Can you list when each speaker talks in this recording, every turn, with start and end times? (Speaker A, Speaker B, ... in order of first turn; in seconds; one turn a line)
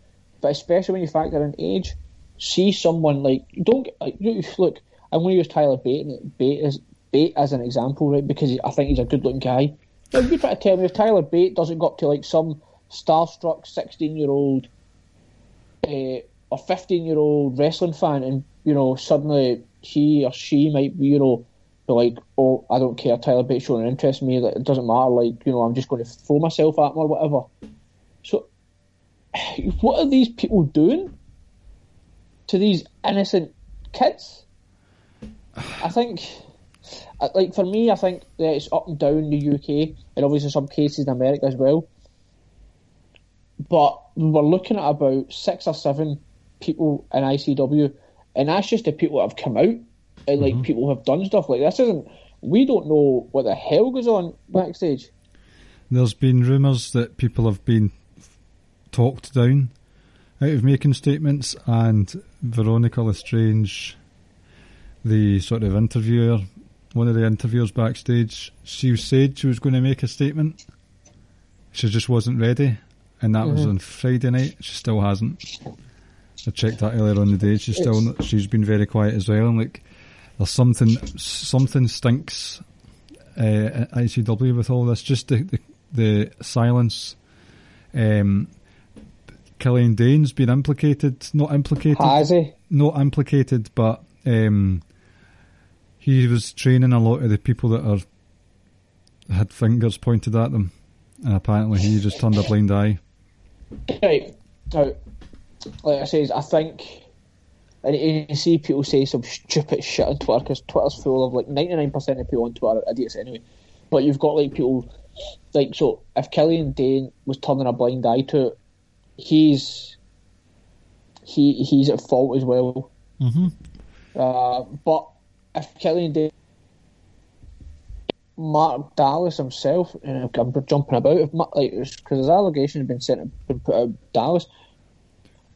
Speaker A: 0.4-14.7
Speaker A: 15.8-27.5
Speaker A: 29.3-31.1
Speaker A: 32.5-34.4
Speaker A: 35.8-36.4
Speaker A: 37.2-41.9
Speaker A: 43.6-55.1
Speaker B: 50.4-50.6
Speaker B: 55.9-58.0
Speaker B: 58.9-59.7
Speaker B: 60.4-64.0
Speaker B: 65.0-70.6
Speaker B: 71.7-75.4
Speaker A: 73.4-73.7
Speaker B: 76.4-79.8
Speaker B: 80.4-82.6
Speaker B: 83.3-87.2
Speaker B: 87.9-88.5
Speaker B: 89.6-94.8
Speaker A: 91.9-92.5
Speaker B: 96.0-98.0
Speaker B: 99.3-103.0
Speaker A: 103.9-105.0
Speaker A: 105.8-107.0
Speaker A: 107.8-114.9
Speaker A: 115.5-118.5
Speaker A: 119.2-120.0
Speaker A: 121.3-122.9
Speaker B: 123.2-123.5
Speaker A: 124.1-126.3
Speaker A: 128.4-134.5